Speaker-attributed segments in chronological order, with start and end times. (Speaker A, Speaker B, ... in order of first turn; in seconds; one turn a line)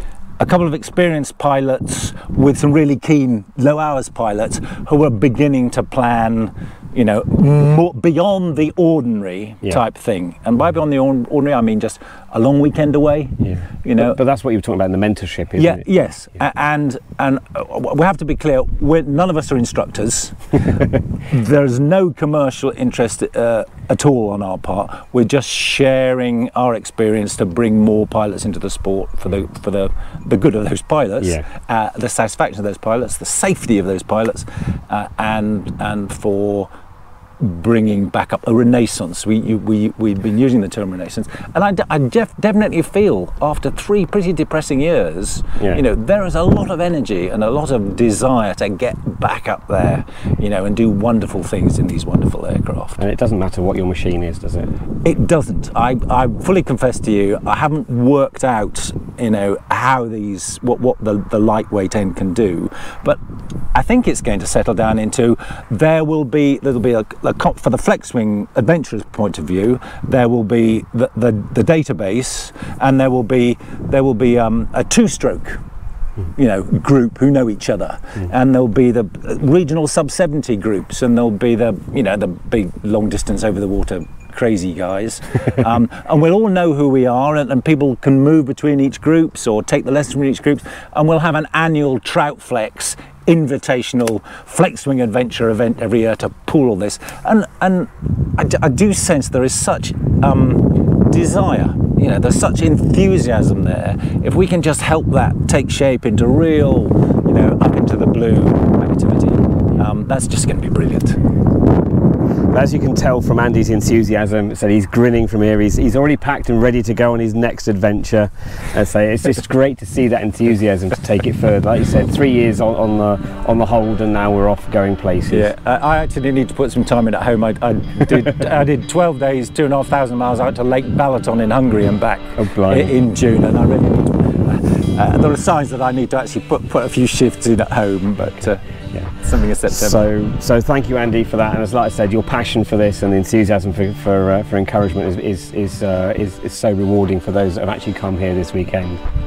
Speaker A: 0.4-14.2
Speaker B: 13.4-15.8
Speaker A: 15.6-20.6
Speaker A: 21.3-36.7
Speaker A: 37.4-53.0
Speaker B: 53.0-54.7
Speaker A: 55.0-63.2
Speaker A: 63.7-75.6
Speaker A: 76.3-111.2
Speaker B: 112.5-125.5
Speaker A: 125.3-138.6
Speaker B: 132.4-132.9
Speaker A: 139.2-140.0
Speaker B: 139.7-149.0